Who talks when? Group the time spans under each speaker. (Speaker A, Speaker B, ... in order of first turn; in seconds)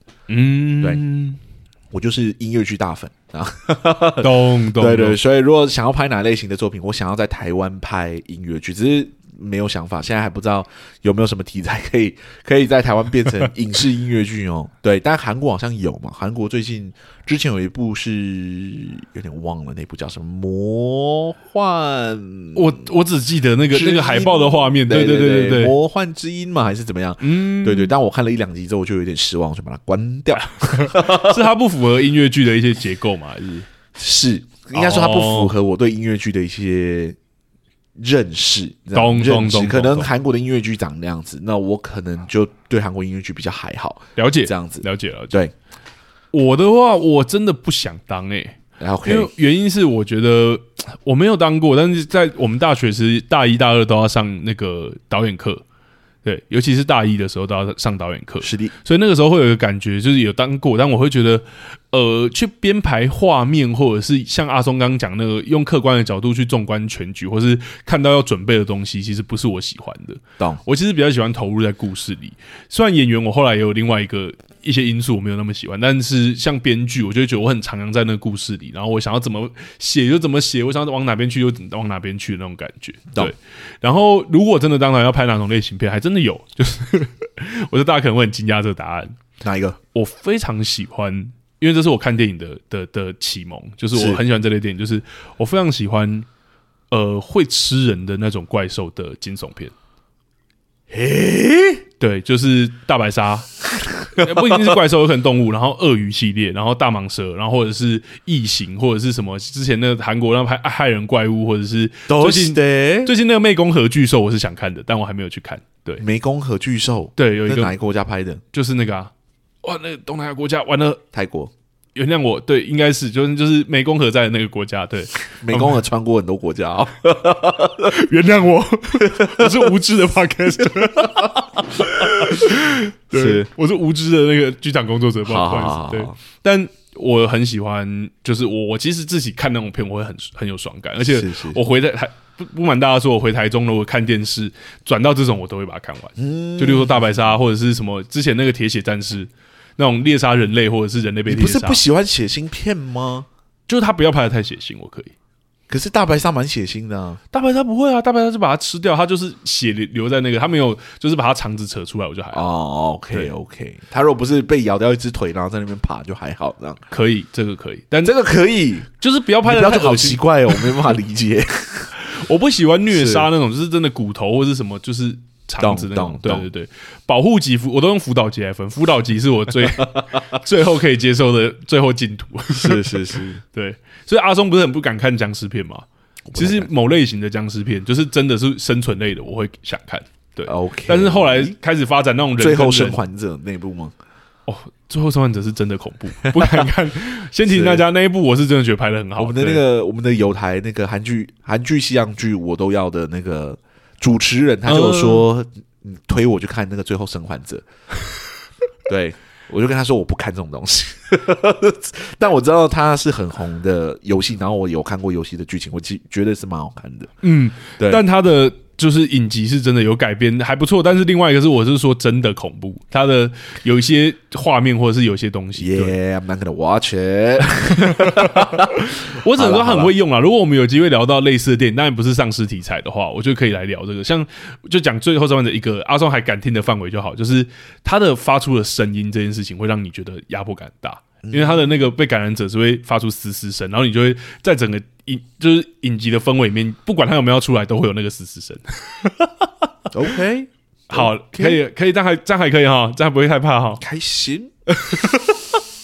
Speaker A: 0.3-1.4, 4.2-5.2, 22.6-25.8, 27.2-27.9, 30.5-33.7, 34.7-35.5, 38.9-40.1, 44.2-45.3, 46.3-55.6, 56.2-89.2, 89.9-96.3, 96.9-99.7, 102.0-103.5, 104.1-116.0, 117.2-117.7, 118.5-119.1, 119.6-121.0, 122.0-125.8, 127.8-151.8, 153.7-155.1, 157.3-162.5, 166.9-168.1, 169.0-170.9, 172.0-193.0, 194.5-199.6, 204.7-205.3, 217.2-225.9, 227.9-249.7, 250.9-253.8, 254.7-255.4
Speaker B: 1.9-22.8, 23.7-31.4, 34.0-37.2, 38.0-45.5, 48.8-49.3, 58.4-58.7, 89.4-89.8, 93.9-94.2, 100.9-101.8, 104.1-104.7, 112.1-113.1, 116.0-118.4, 121.1-121.5, 125.4-128.0, 129.0-129.6, 131.0-132.6, 133.1-133.5, 135.2-136.2, 141.0-141.6, 146.2-147.4, 151.3-153.3, 155.7-157.2, 162.3-166.8, 168.0-168.9, 169.4-171.9, 172.9-173.3, 175.6-176.5, 182.6-183.4, 186.3-186.7, 190.5-191.6, 192.4-193.9, 196.2-196.7, 197.4-197.8, 199.2-207.7, 208.9-217.1, 225.6-229.9, 241.2-241.7, 249.9-251.6, 253.8-254.5